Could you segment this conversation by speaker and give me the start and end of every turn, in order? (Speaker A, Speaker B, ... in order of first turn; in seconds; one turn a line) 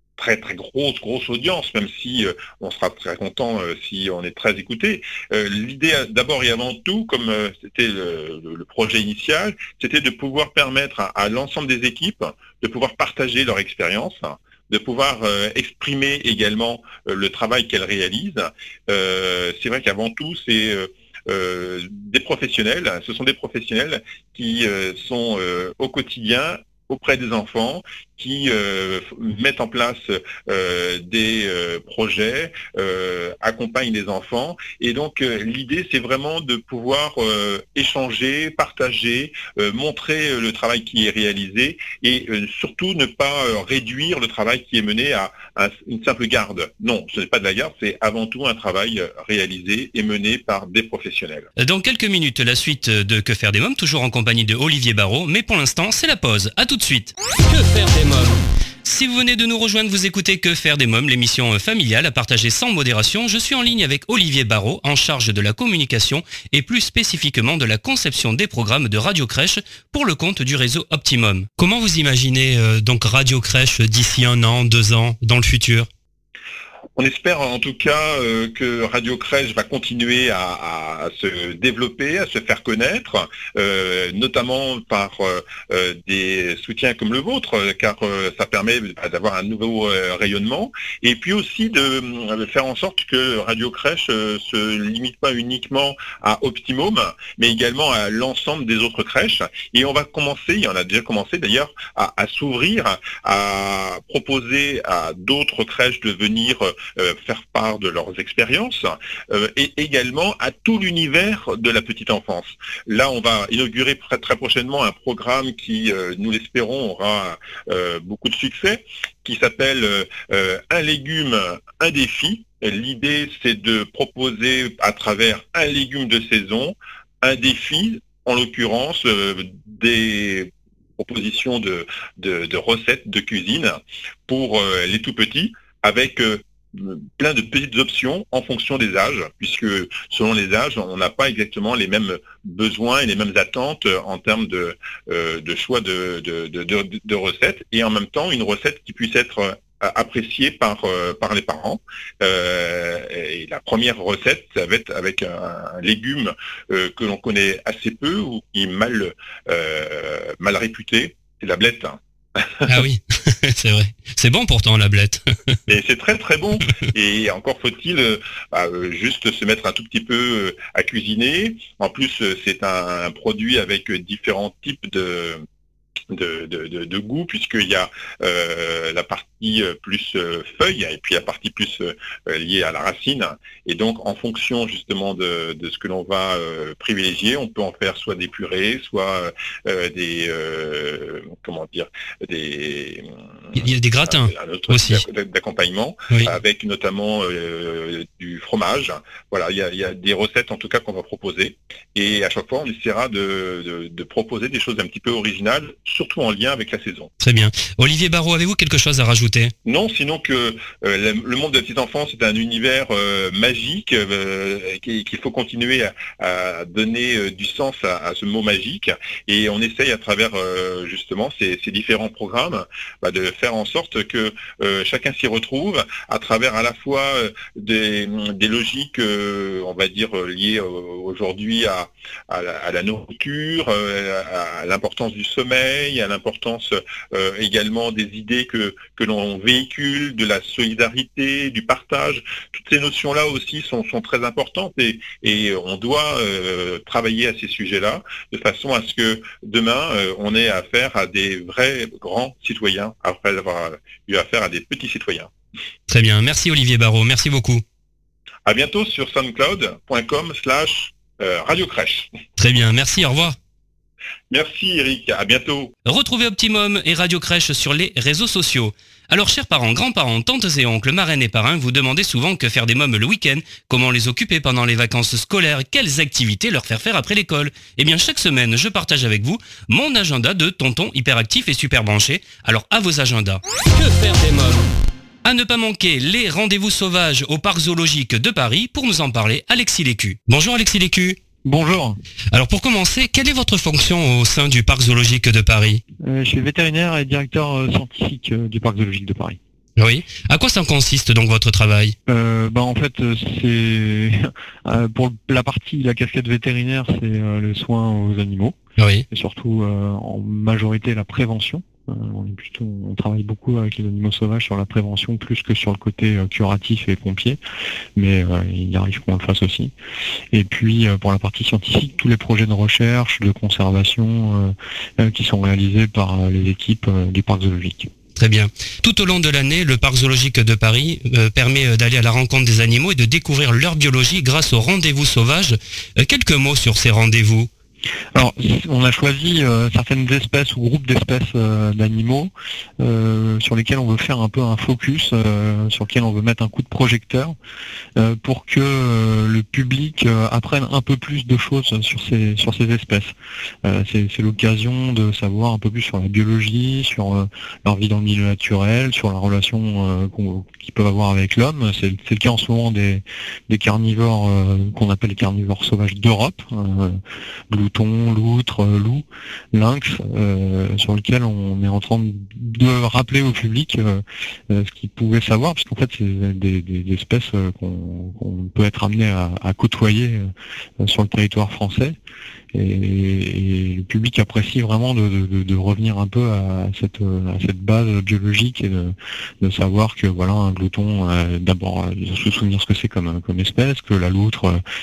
Speaker A: 0.2-51.5
Speaker B: 51.6-75.9
Speaker A: 77.0-162.6
Speaker B: 162.7-165.5
Speaker A: 165.7-175.4
Speaker A: 176.1-207.1
Speaker B: 193.6-195.0
Speaker B: 207.2-209.5
Speaker A: 209.6-255.3
Speaker B: 255.9-257.6
Speaker A: 258.4-262.1
Speaker B: 262.4-263.4
Speaker A: 264.3-265.7
Speaker B: 265.9-284.7
Speaker B: 285.2-291.2
Speaker C: 291.4-292.0
Speaker B: 292.3-295.8
Speaker C: 296.0-299.4
Speaker B: 299.8-301.9
Speaker C: 302.1-308.6
Speaker B: 308.8-309.0
Speaker C: 309.1-317.4
Speaker C: 317.9-319.7
Speaker C: 320.3-327.9
Speaker B: 328.1-337.5
Speaker C: 338.1-347.3
Speaker C: 347.9-382.0
Speaker C: 382.5-394.6